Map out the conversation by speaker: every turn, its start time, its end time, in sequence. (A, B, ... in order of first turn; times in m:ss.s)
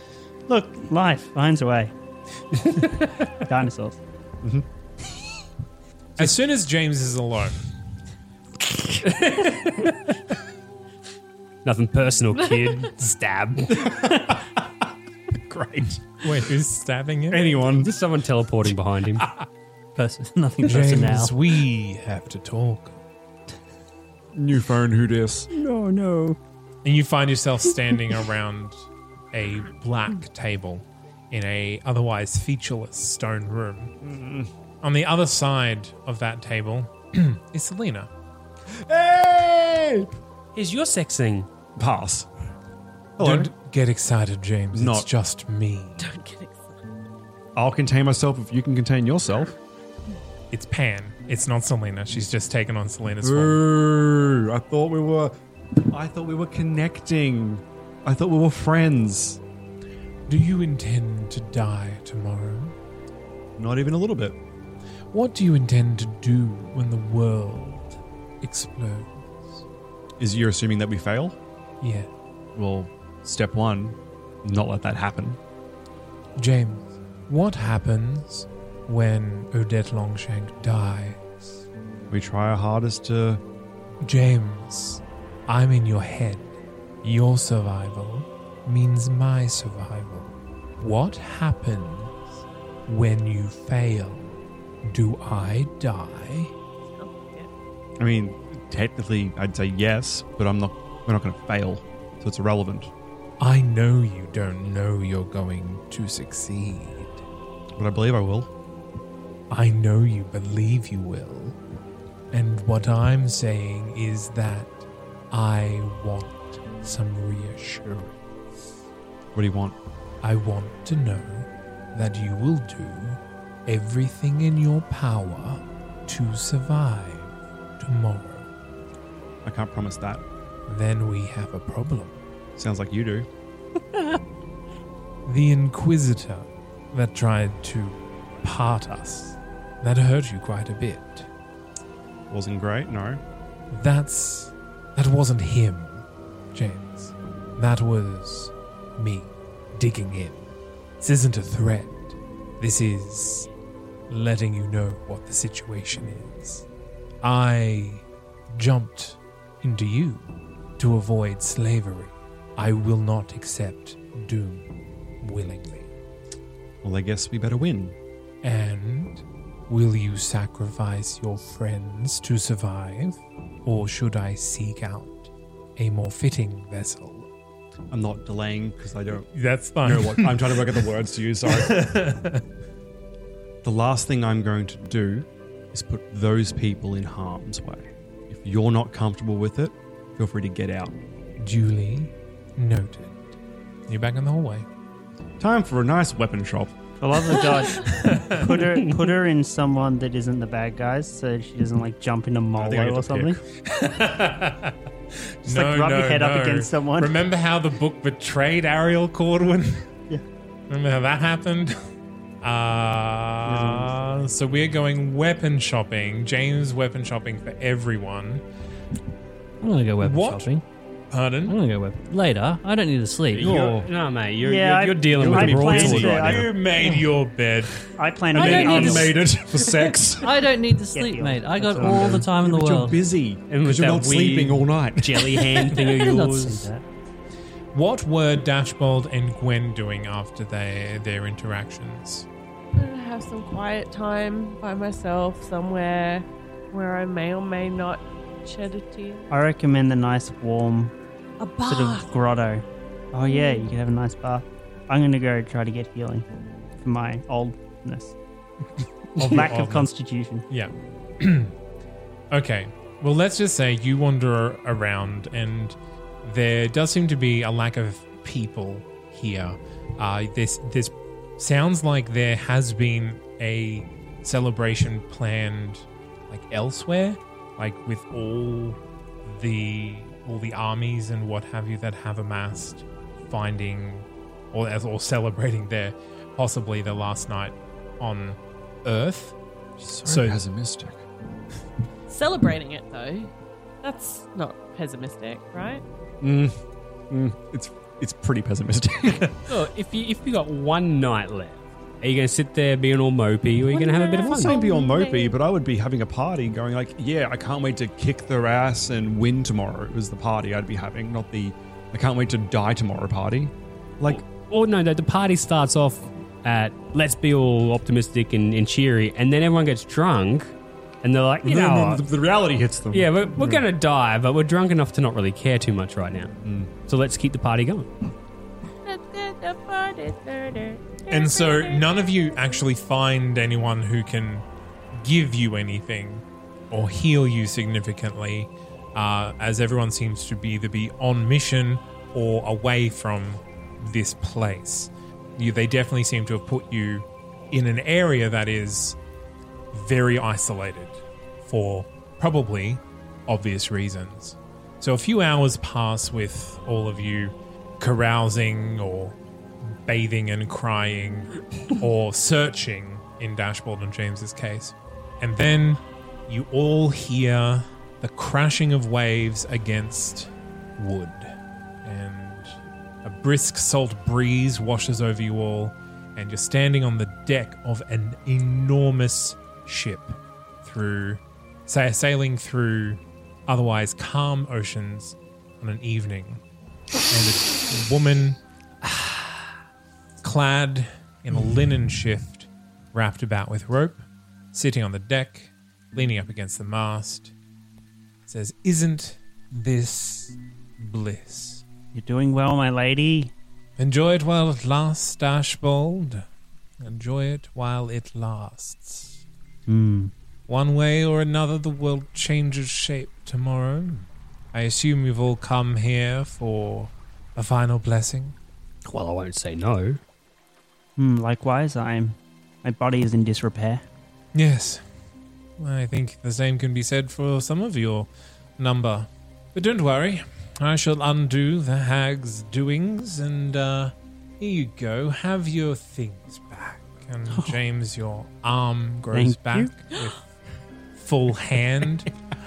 0:00.5-0:01.9 A
0:03.5-0:04.0 A
0:06.2-0:07.6 B
0:09.0-0:10.0 C
0:11.6-0:13.8 C
0:13.7-0:14.6 D
0:15.4-0:16.1 D
0:16.2-0:17.5 B
0:17.3-0:17.9 D
0:17.8-0:19.2 C
0:20.0-0:21.3 E
0:20.6-0:23.0 B
0:24.3-0:25.5 D
0:25.5-0:26.4 A
0:26.8-0:33.9 B
0:34.0-0:34.5 D
0:34.8-0:38.1 B
0:38.7-0:40.1 D
0:40.6-0:41.5 C
0:41.8-0:42.3 D
0:43.2-0:43.5 D
0:43.2-0:46.1 B
0:44.7-0:45.1 D
0:46.0-0:46.8 F
0:47.6-0:49.6 D
0:50.5-0:53.6 B
0:53.2-0:55.4 D
0:55.9-0:59.4 D
1:00.3-1:02.7 B
1:03.6-1:04.4 D
1:05.1-1:09.6 B
1:10.2-1:11.4 D
1:11.8-1:12.1 B
1:12.6-1:15.4 D
1:16.4-1:21.5 B
1:22.1-1:23.4 D
1:24.0-1:32.2 B
1:32.9-1:36.5 B
1:36.8-1:37.5 F
1:38.0-1:42.9 D
1:43.4-1:47.2 B
1:47.8-1:48.5 D
1:49.5-1:51.6 B
1:52.3-1:58.1 B
1:59.3-1:59.8 D
2:00.2-2:08.5 B
2:09.4-2:10.2 D
2:10.7-2:12.2 B
2:12.6-2:13.3 D
2:15.3-2:21.3 B
2:22.3-2:23.2 D
2:23.7-2:33.5 B
2:34.1-2:36.6 B
2:37.2-2:40.2 B
2:40.8-2:44.7 B
2:45.2-2:45.9 B
2:46.8-2:48.0 D
2:48.4-2:57.3 B
2:57.9-2:59.3 D
2:59.3-3:00.8 B
2:59.8-3:01.9 D
3:01.5-3:02.4 B
3:03.6-3:10.9 D
3:11.4-3:13.4 B
3:13.9-3:14.7 B
3:15.4-3:16.7 D
3:17.0-3:23.4 A
3:17.8-3:18.4 B
3:22.6-3:23.4 D
3:23.7-3:24.8 B
3:25.4-3:29.8 B
3:25.5-3:27.2 A
3:30.7-3:31.8 B
3:32.4-3:38.4 B
3:33.5-3:33.8 A
3:39.6-3:40.6 E
3:40.0-3:40.5 B
3:41.1-3:41.6 B
3:41.5-3:43.5 E
3:43.3-3:46.3 C
3:43.4-3:43.9 D
3:44.4-3:46.5 A
3:45.2-3:46.5 D
3:46.2-3:47.8 B
3:48.0-3:49.2 A
3:48.4-3:49.1 E
3:48.4-3:50.2 D
3:48.4-3:49.1 C
3:50.2-3:53.0 E
3:50.9-3:52.3 A
3:51.8-3:55.4 D
3:53.5-3:56.7 C
3:55.0-3:56.8 A
3:56.0-3:56.3 E
3:57.7-4:02.3 B
4:02.7-4:09.3 F
4:09.3-4:10.9 A
4:11.4-4:12.2 F
4:11.7-4:16.3 A
4:13.3-4:13.7 F
4:16.8-4:18.2 A
4:19.2-4:19.9 B
4:19.2-4:20.5 A
4:20.5-4:21.5 B
4:22.3-4:49.4 B
4:49.8-4:51.0 D
4:50.0-4:50.4 B
4:52.1-4:53.3 F
4:53.8-4:55.8 F
4:56.2-4:56.6 D
4:57.1-4:59.3 D
4:59.5-5:04.5 C
5:03.7-5:05.4 F
5:04.2-5:14.2 D
5:14.1-5:22.0 C
5:21.4-5:23.7 D
5:22.9-5:26.3 C
5:26.4-5:26.7 D
5:26.9-5:27.9 C
5:28.8-5:32.0 F
5:31.1-5:49.0 B
5:49.7-6:11.3 B
6:11.8-6:26.4 B
6:27.1-6:29.0 B
6:30.2-6:37.3 B
6:38.3-6:41.6 B
6:41.9-6:43.3 A
6:43.8-6:46.2 B
6:46.8-6:49.2 B
6:49.7-6:50.1 A
6:50.5-6:58.4 B
6:58.9-7:00.0 C
7:01.0-7:03.8 A
7:04.3-7:04.8 B
7:05.6-7:20.2 B
7:19.1-7:19.7 A
7:21.0-7:22.1 B